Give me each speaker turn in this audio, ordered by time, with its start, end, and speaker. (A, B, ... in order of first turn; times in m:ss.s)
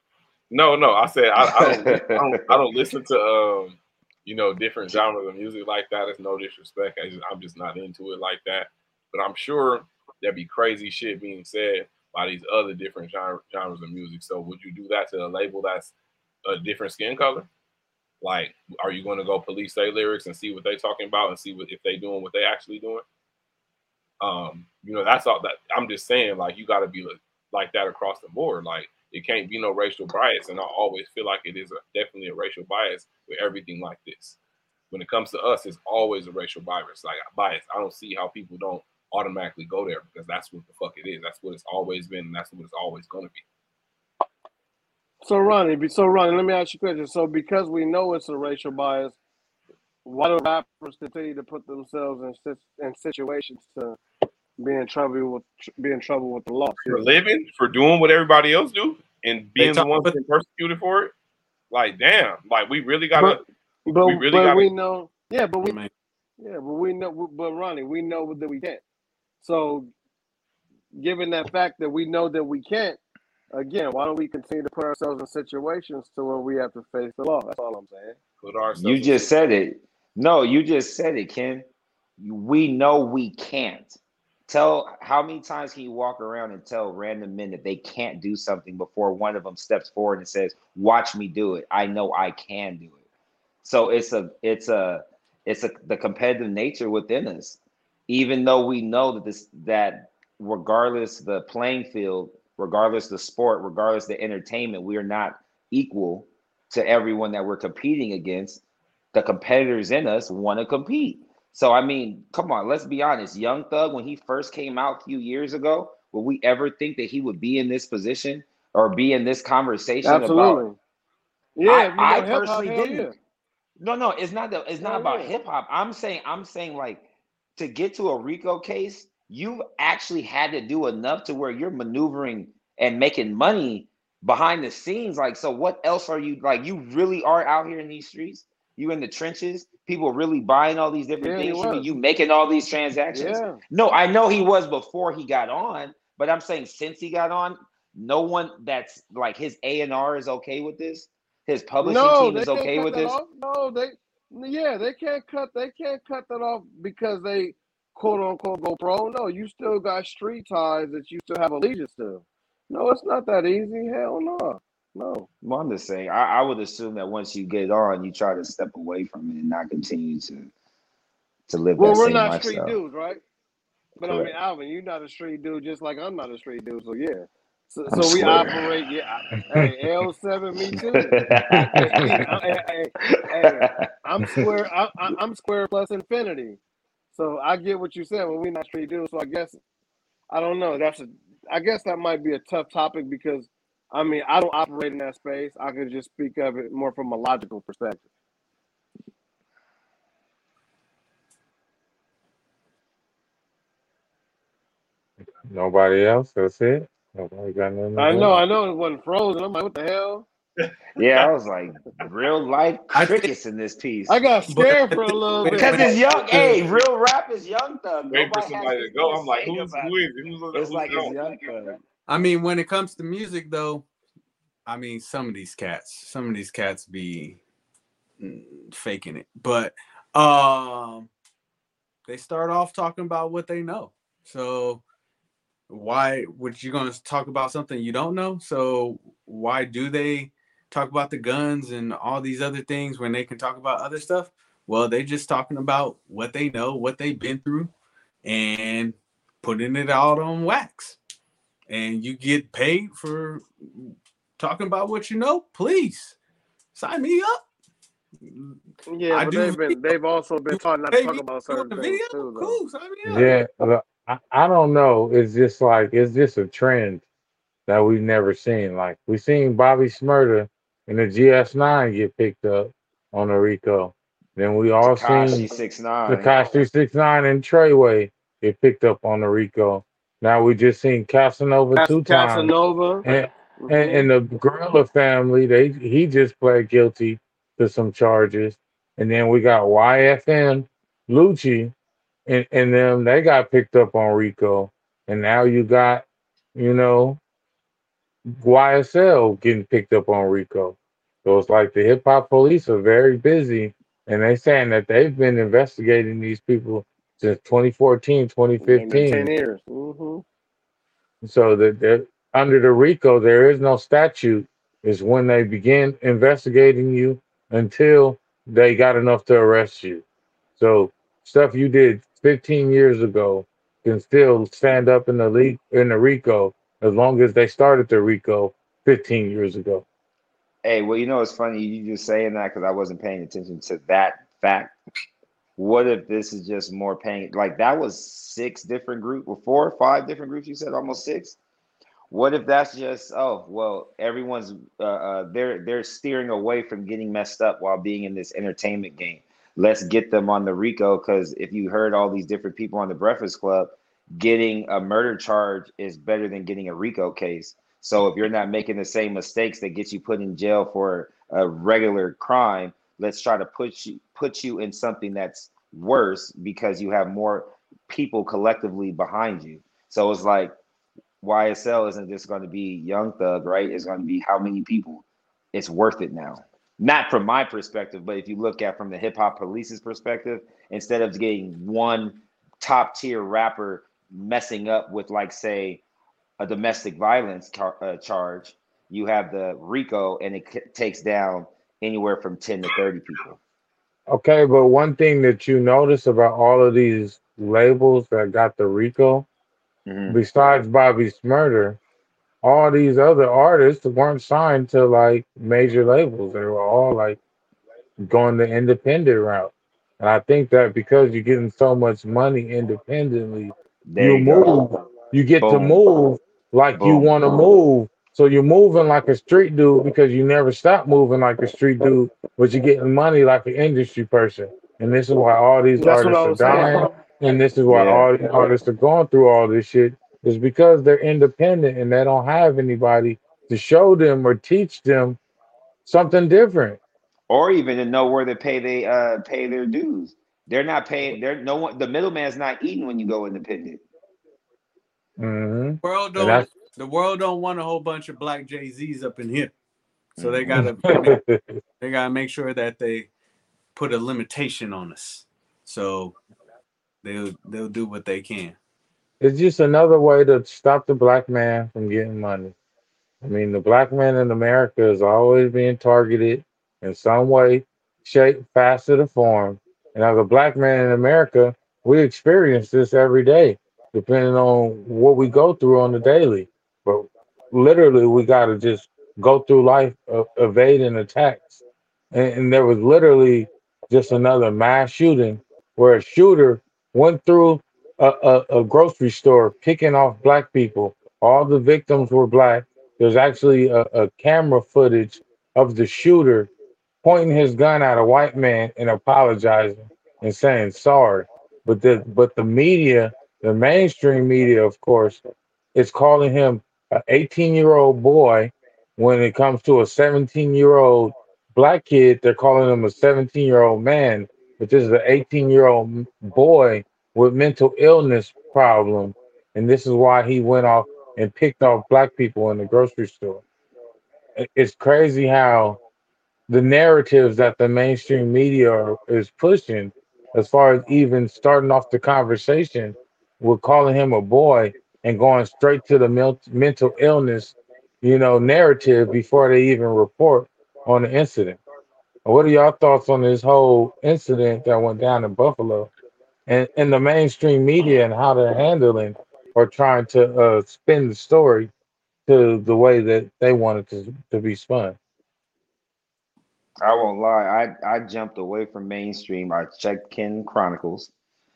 0:00.5-0:15.9 A
0:01.5-0:02.6 B
0:16.4-0:17.5 A
0:18.2-0:23.0 A
0:24.2-0:34.4 A
0:34.9-0:43.4 A
0:45.2-0:49.2 C
0:50.0-0:54.0 C
0:54.6-0:57.1 C
0:56.9-1:01.1 A
0:59.6-1:00.2 D
1:01.7-1:03.4 A
1:03.2-1:05.8 C
1:04.0-1:04.7 A
1:05.6-1:05.9 D
1:06.4-1:08.8 C
1:09.4-1:09.9 C
1:11.0-1:13.0 C
1:13.5-1:18.2 C
1:18.4-1:19.4 A
1:18.8-1:21.6 B
1:22.2-1:33.0 B
1:33.6-1:48.6 B
1:49.1-2:00.6 B
2:00.0-2:00.8 C
2:01.6-2:03.1 C
2:01.6-2:03.1 B
2:03.8-2:07.0 B
2:04.8-2:05.3 C
2:07.6-2:33.2 B
2:21.2-2:21.9 C
2:23.1-2:23.6 C
2:31.8-2:45.3 C
2:45.4-2:50.5 B
2:51.5-2:52.8 B
2:51.8-2:53.2 C
2:54.0-3:01.2 C
2:54.0-2:54.3 B
2:57.9-2:58.6 B
3:00.8-3:02.4 B
3:01.5-3:02.2 E
3:01.7-3:06.6 C
3:03.0-3:03.8 B
3:07.1-3:09.6 C
3:10.3-3:18.0 C
3:25.4-3:28.4 E
3:28.0-3:30.3 C
3:30.6-3:31.3 A
3:31.0-3:34.2 B
3:32.9-3:33.3 D
3:34.1-3:36.0 C
3:34.5-3:36.6 D
3:35.5-3:39.9 B
3:38.1-3:41.1 A
3:40.5-3:41.7 B
3:41.0-3:41.8 C
3:42.1-3:43.9 D
3:44.7-3:47.4 D
3:48.2-3:51.1 D
3:52.1-3:54.8 D
3:55.7-4:07.7 D
4:08.2-4:11.0 D
4:11.7-4:16.2 D
4:16.7-4:17.4 D
4:18.2-4:19.9 D
4:18.9-4:22.6 C
4:20.5-4:23.4 D
4:23.1-4:27.0 E
4:27.7-4:35.5 E
4:34.8-4:36.4 B
4:36.1-4:42.5 E
4:41.8-4:43.0 C
4:43.0-4:51.7 E
4:43.6-4:44.1 C
4:52.3-4:57.2 E
4:58.4-5:09.3 E
5:08.6-5:10.2 C
5:11.2-5:20.0 E
5:20.6-5:29.8 E
5:30.6-5:34.8 B
5:35.6-5:41.4 B
5:42.1-6:10.5 B
6:11.2-6:25.8 B
6:26.4-6:33.4 B
6:34.1-6:39.3 E
6:39.9-6:40.2 B
6:40.1-6:41.8 E
6:42.4-6:47.2 E
6:48.0-7:15.2 E
6:53.9-6:54.6 B
6:55.4-6:55.8 B
6:56.8-6:57.1 B
7:05.8-7:06.9 C
7:07.7-7:08.1 B
7:15.9-7:16.8 E
7:17.3-7:23.8 B
7:25.2-7:26.5 E
7:25.8-7:29.5 D
7:30.2-7:30.6 B
7:30.2-7:31.2 D
7:30.5-7:31.6 E
7:31.8-7:33.1 D
7:33.7-7:36.2 D
7:37.0-7:38.6 D
7:39.2-7:42.5 E
7:43.2-8:01.6 E
8:02.1-8:16.5 E
8:17.0-8:25.2 E
8:25.7-8:43.4 E
8:44.4-8:45.8 E
8:46.5-9:01.6 E
9:02.2-9:05.9 E
9:06.5-9:11.7 E
9:12.3-9:15.0 E
9:16.8-9:21.1 B